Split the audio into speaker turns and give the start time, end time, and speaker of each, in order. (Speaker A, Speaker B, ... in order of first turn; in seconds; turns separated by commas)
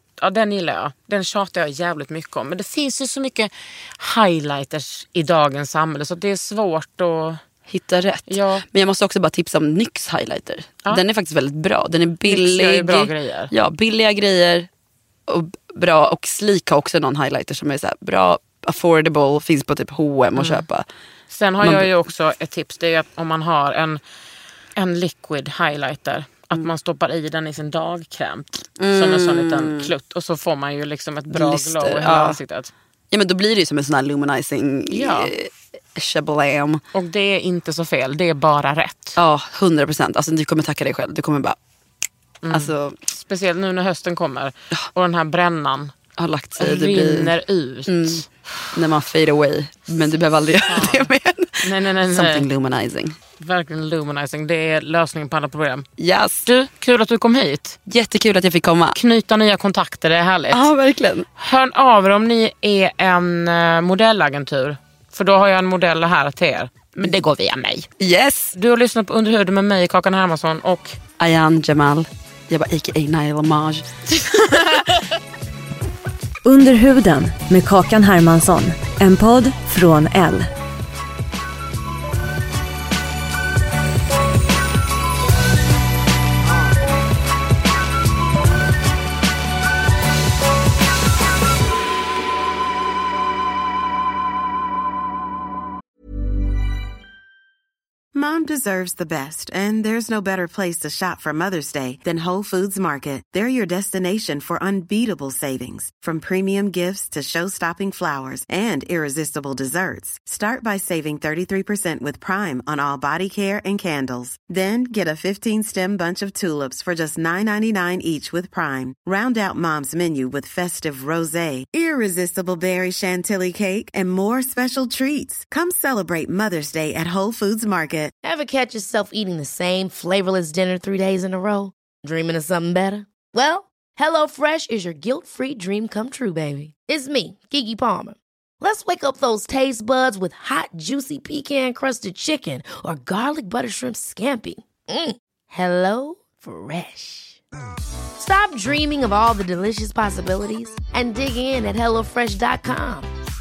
Speaker A: 0.2-7.4, Speaker B: 7.7-14.7, Speaker A: 8.3-8.7, Speaker A: 12.2-13.5, Speaker B: 15.3-20.9, Speaker A: 20.4-20.6, Speaker A: 21.3-24.0, Speaker B: 21.6-21.9, Speaker A: 24.8-32.7, Speaker B: 28.8-29.9, Speaker B: 31.3-32.4, Speaker B: 33.1-36.8, Speaker A: 34.9-35.3, Speaker A: 36.9-39.2, Speaker B: 39.1-41.6, Speaker A: 42.4-45.9, Speaker B: 42.5-43.0, Speaker B: 46.2-47.3, Speaker A: 46.6-48.3, Speaker B: 47.9-53.1, Speaker A: 50.7-52.5, Speaker A: 53.4-55.9, Speaker B: 56.0-56.5, Speaker A: 56.5-57.8, Speaker B: 57.9-59.0, Speaker A: 58.9-60.7, Speaker B: 60.5-61.3, Speaker A: 61.4-67.9, Speaker B: 68.0-68.5, Speaker A: 68.5-71.0, Speaker B: 71.2-74.7, Speaker A: 74.3-75.0, Speaker C: 76.4-80.5, Speaker D: 98.1-128.1, Speaker E: 128.2-147.4, Speaker E: 148.2-153.1